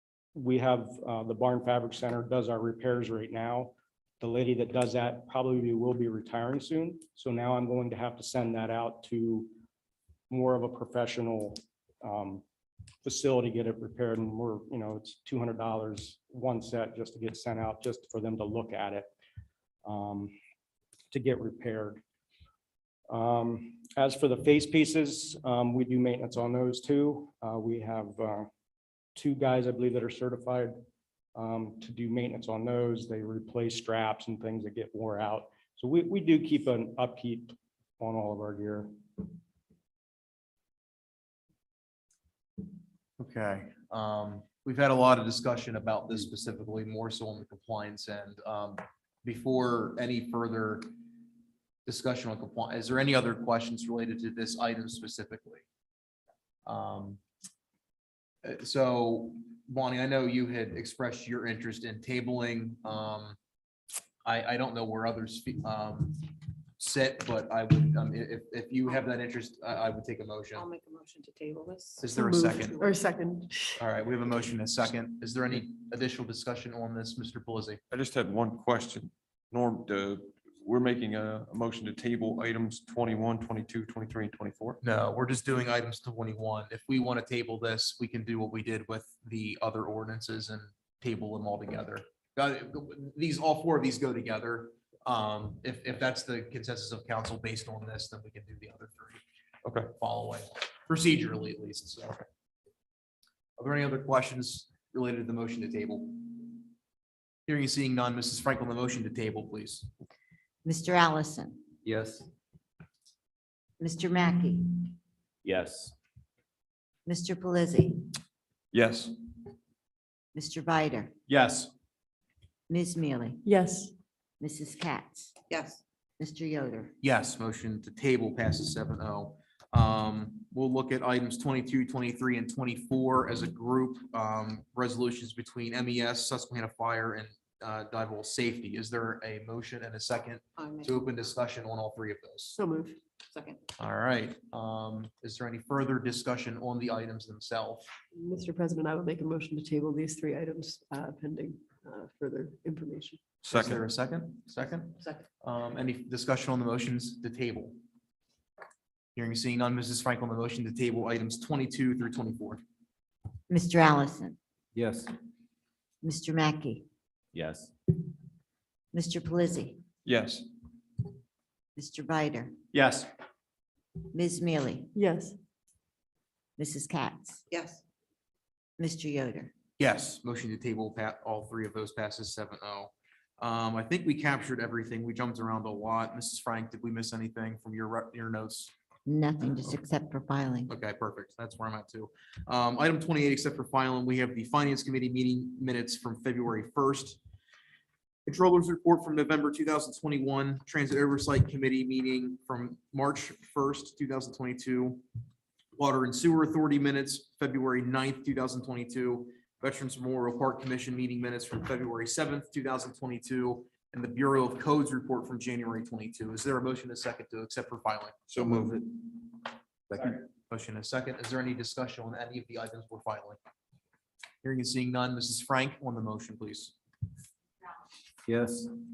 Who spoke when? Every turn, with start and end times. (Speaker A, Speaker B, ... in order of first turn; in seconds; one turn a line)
Speaker A: 0.3-9.5
Speaker A: 10.3-12.4
Speaker A: 13.0-19.1
Speaker A: 19.8-20.3
Speaker A: 21.1-22.0
Speaker A: 23.1-28.5
Speaker A: 29.1-30.8
Speaker A: 31.3-38.9
Speaker B: 43.2-50.9
Speaker B: 51.9-55.6
Speaker B: 56.6-57.2
Speaker B: 58.4-63.4
Speaker B: 64.2-66.2
Speaker B: 66.8-70.7
Speaker C: 70.5-73.0
Speaker B: 72.0-72.8
Speaker D: 72.1-73.8
Speaker B: 73.8-77.8
Speaker E: 77.9-84.8
Speaker B: 84.8-99.2
Speaker E: 99.6-99.9
Speaker B: 99.9-102.2
Speaker B: 103.6-106.6
Speaker B: 107.5-109.9
Speaker F: 110.6-111.6
Speaker G: 111.8-112.3
Speaker F: 113.8-114.8
Speaker G: 115.4-115.9
Speaker F: 117.0-118.0
Speaker E: 118.7-119.1
Speaker F: 120.3-121.1
Speaker B: 121.3-121.7
Speaker F: 122.7-123.4
Speaker D: 123.4-123.9
Speaker F: 124.4-125.3
Speaker C: 125.5-125.8
Speaker F: 126.2-126.9
Speaker B: 127.0-142.6
Speaker C: 140.6-141.1
Speaker D: 142.6-143.0
Speaker C: 143.3-143.6
Speaker B: 143.8-147.9
Speaker D: 148.1-153.2
Speaker E: 153.4-153.8
Speaker B: 153.5-157.7
Speaker B: 159.2-162.6
Speaker F: 163.5-164.4
Speaker G: 164.7-165.1
Speaker F: 166.0-166.8
Speaker G: 167.3-167.7
Speaker F: 168.9-169.8
Speaker E: 170.0-170.4
Speaker F: 171.8-172.5
Speaker B: 172.7-173.1
Speaker F: 174.1-174.9
Speaker D: 174.9-175.3
Speaker F: 176.6-177.4
Speaker C: 177.5-177.8
Speaker F: 178.8-179.5
Speaker B: 179.8-188.7
Speaker F: 189.1-190.7
Speaker B: 190.7-197.2
Speaker B: 198.2-205.0
Speaker B: 205.8-218.2
Speaker E: 218.3-218.8
Speaker B: 220.5-223.4
Speaker B: 224.4-226.7
Speaker G: 228.2-228.7